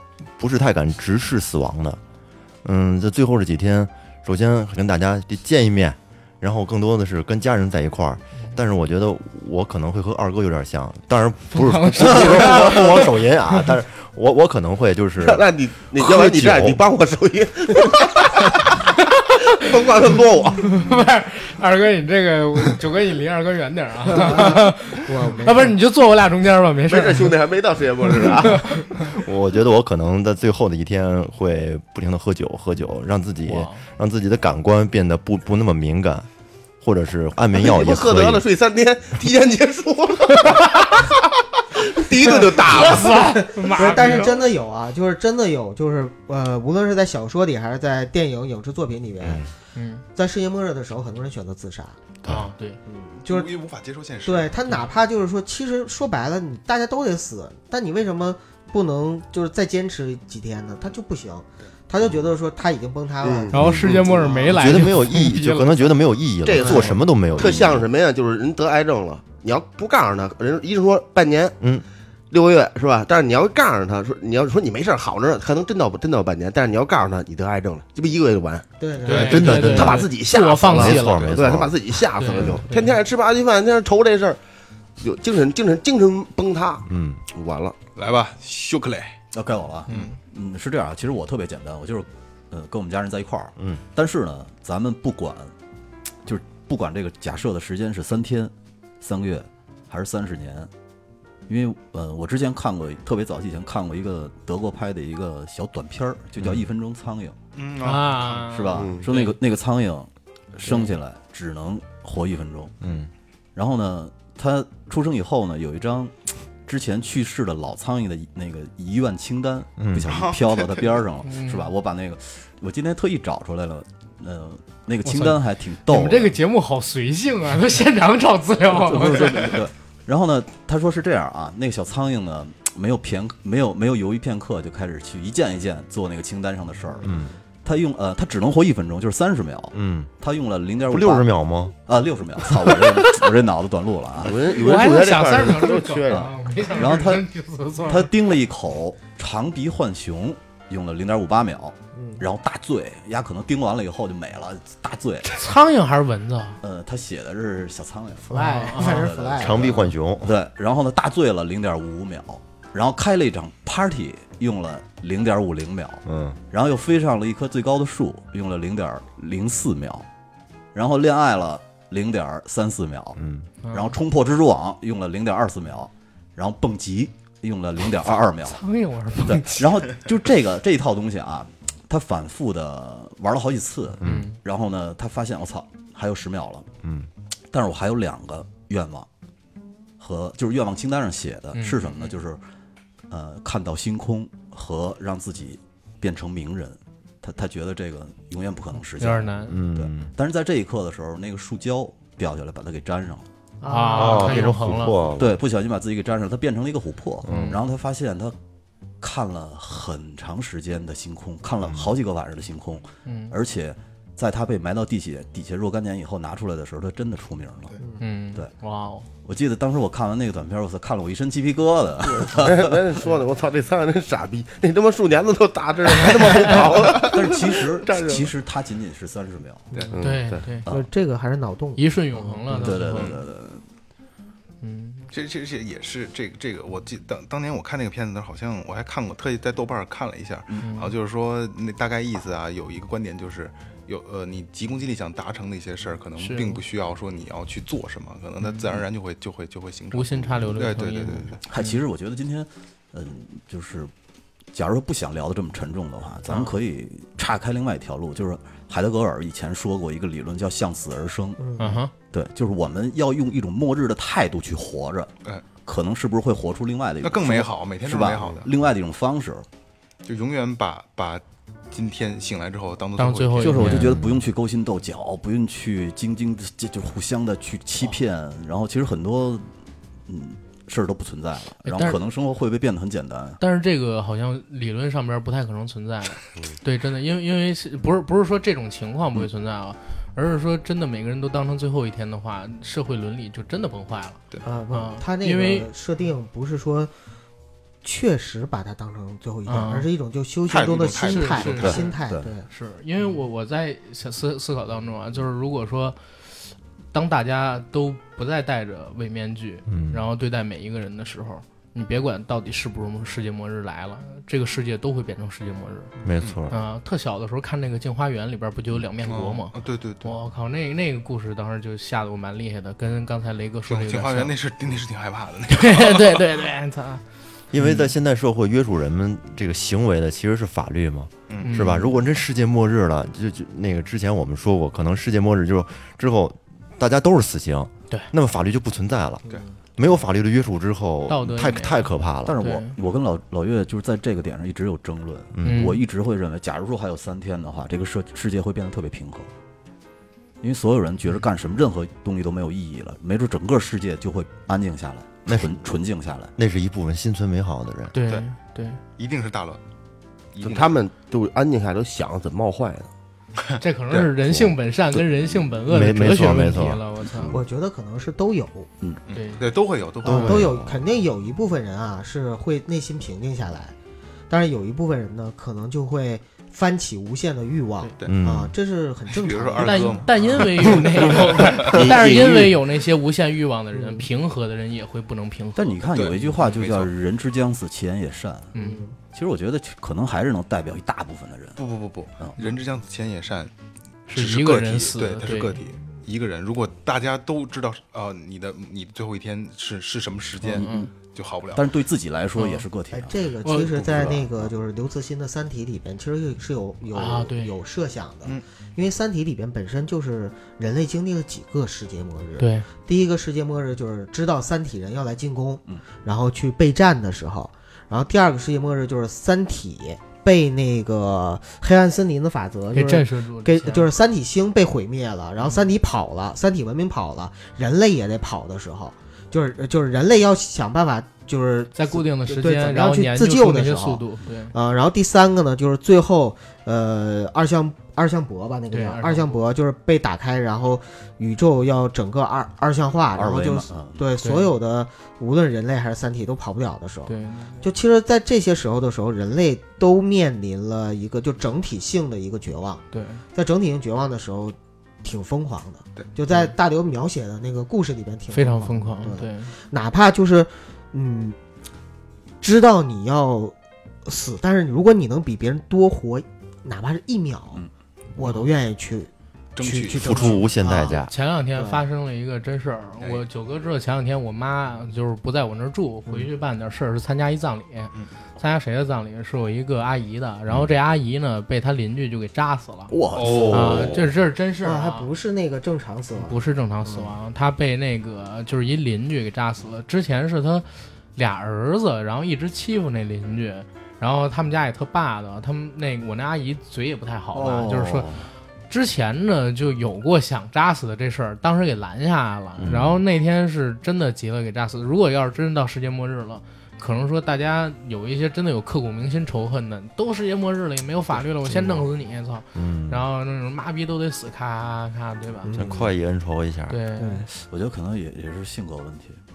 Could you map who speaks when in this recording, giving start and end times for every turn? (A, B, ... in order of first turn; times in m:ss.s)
0:00.4-0:02.0 A
0:02.6-0:16.8 A
0:11.5-0:13.0 B
0:15.2-0:18.7 C
0:19.5-0:20.8 C
0:20.6-0:27.3 B
0:24.1-0:25.8 D
0:26.9-0:28.8 C
0:28.4-0:28.9 B
0:29.1-0:36.3 A
0:33.4-0:33.8 B
0:36.8-0:38.4 A
0:37.6-0:41.2 C
0:41.8-0:43.3 C
0:42.7-0:44.4 B
0:43.1-0:49.5 D
0:49.2-0:49.5 A
0:49.7-0:50.0 B
0:50.1-0:52.0 D
0:52.2-0:52.8 B
0:52.8-0:53.5 D
0:53.2-0:54.6 E
0:54.2-1:04.6 D
1:03.2-1:04.4 C
1:03.5-1:05.9 B
1:03.6-1:03.9 A
1:04.5-1:07.8 A
1:06.4-1:11.6 C
1:06.6-1:06.9 D
1:11.6-1:11.8 A
1:12.3-1:24.4 C
1:18.8-1:19.9 D
1:19.0-1:21.4 B
1:19.1-1:22.0 A
1:22.1-1:23.0 B
1:25.0-1:27.8 C
1:26.8-1:27.2 A
1:28.0-1:29.2 E
1:29.3-1:35.5 F
1:29.9-1:30.1 B
1:36.2-1:40.7 F
1:41.5-1:47.4 F
1:46.4-1:46.6 A
1:47.5-1:48.6 E
1:47.8-1:49.2 B
1:48.4-1:52.7 F
1:48.8-1:49.1 C
1:52.8-1:53.1 A
1:53.6-1:56.1 F
1:56.6-2:06.4 F
1:59.8-2:00.1 A
2:00.1-2:00.9 E
2:01.2-2:01.7 B
2:05.0-2:09.6 B
2:08.7-2:21.3 F
2:17.0-2:17.3 A
2:19.7-2:20.1 A
2:20.9-2:21.7 A
2:21.8-2:24.4 F
2:24.2-2:26.3 C
2:24.5-2:28.1 B
2:26.1-2:27.3 F
2:27.9-2:35.3 F
2:31.9-2:32.2 D
2:35.2-2:36.6 B
2:36.6-2:50.1 F
2:38.3-2:39.9 D
2:38.3-2:39.1 B
2:39.4-2:40.3 A
2:46.0-2:46.4 A
2:50.7-2:58.6 F
2:53.2-2:53.4 A
2:53.6-2:54.0 B
2:58.4-2:59.6 B
2:59.2-3:06.7 F
3:04.0-3:04.3 A
3:04.0-3:04.4 B
3:06.8-3:07.1 A
3:07.5-3:09.1 F
3:10.0-3:12.4 F
3:11.5-3:12.1 B
3:13.1-3:23.3 F
3:19.0-3:19.6 B
3:19.5-3:20.1 A
3:23.6-3:24.5 D
3:23.6-3:25.0 B
3:23.9-3:25.3 A
3:25.2-3:28.3 F
3:27.2-3:27.6 A
3:27.3-3:27.6 B
3:29.0-3:37.8 F
3:33.0-3:33.4 B
3:38.0-3:39.1 B
3:39.2-3:42.8 F
3:42.0-3:48.3 C
3:46.6-3:49.7 F
3:49.9-3:50.6 C
3:50.0-3:50.7 B
3:50.7-3:53.0 D
3:51.8-3:53.2 B
3:52.5-3:53.6 F
3:54.6-3:55.1 B
3:55.1-4:11.4 E
4:00.6-4:00.9 B
4:06.2-4:06.6 B
4:08.4-4:08.7 B
4:09.9-4:11.8 B
4:11.4-4:13.9 F
4:14.5-4:21.4 F
4:21.4-4:21.8 D
4:21.6-4:21.9 B
4:22.1-4:25.1 F
4:25.6-4:29.4 F
4:27.0-4:28.5 E
4:30.0-4:33.6 E
4:33.0-4:33.9 B
4:33.4-4:39.5 F
4:33.6-4:34.2 A
4:40.1-4:43.4 F
4:41.6-4:42.0 B
4:43.4-4:55.7 B
4:54.4-4:56.9 D
4:57.8-5:02.5 D
4:59.5-4:59.9 B
5:00.5-5:01.8 E
5:01.0-5:15.9 B
5:01.6-5:02.3 F
5:09.7-5:10.0 A
5:16.0-5:16.6 A
5:16.5-5:24.3 B
5:19.0-5:20.1 E
5:23.7-5:26.2 E
5:25.5-5:27.0 B
5:27.5-5:39.2 A
5:31.3-5:31.7 E
5:31.4-5:31.9 B
5:39.8-5:42.4 A
5:41.1-5:42.8 B
5:42.2-5:49.3 F
5:45.3-5:45.7 A
5:45.4-5:45.8 B
5:50.4-5:56.3 F
5:55.2-5:55.5 A
5:56.4-5:57.9 A
5:57.9-5:58.8 B
5:59.0-5:59.6 E
6:00.3-6:00.7 E
6:00.4-6:02.9 C
6:03.6-6:07.4 B
6:05.7-6:06.8 A
6:07.3-6:08.7 D
6:09.1-6:10.4 E
6:09.1-6:09.4 B
6:10.0-6:13.7 D
6:10.0-6:10.5 A
6:14.3-6:20.4 D
6:18.0-6:18.5 A
6:19.1-6:21.5 E
6:19.6-6:25.8 B
6:21.7-6:22.6 C
6:23.7-6:24.0 D
6:25.6-6:28.5 F
6:25.9-6:26.9 E
6:28.5-6:28.8 B
6:28.6-6:29.0 D
6:29.1-6:31.6 F
6:31.6-6:33.5 E
6:34.1-6:35.6 B
6:34.1-6:41.7 E
6:40.4-6:40.9 F
6:40.6-6:40.9 B
6:41.5-6:44.5 F
6:42.4-6:42.6 B
6:42.9-7:41.4 D
6:43.4-6:43.7 B
6:46.9-6:47.5 B
6:52.4-6:52.7 B
7:02.7-7:03.9 B
7:05.4-7:05.7 B
7:11.7-7:14.5 B
7:18.7-7:19.4 B
7:23.1-7:24.0 F
7:24.2-7:24.5 B
7:27.1-7:27.6 B
7:32.9-7:33.2 B
7:38.3-7:39.5 B
7:42.4-7:43.5 D
7:44.0-7:47.6 D
7:48.2-7:51.0 D
7:48.2-7:48.5 B
7:49.6-7:50.4 E
7:50.0-7:51.1 A
7:51.1-8:05.1 B
7:51.6-7:51.8 D
8:02.9-8:04.1 F
8:03.1-8:03.8 E
8:04.6-8:07.1 D
8:06.2-8:18.1 B
8:17.3-8:18.3 F
8:18.7-8:35.5 B
8:22.6-8:22.9 A
8:32.5-8:33.0 A
8:35.4-8:35.8 D
8:35.5-8:36.8 A
8:36.7-8:37.2 B
8:37.0-8:37.3 D
8:37.3-8:39.2 F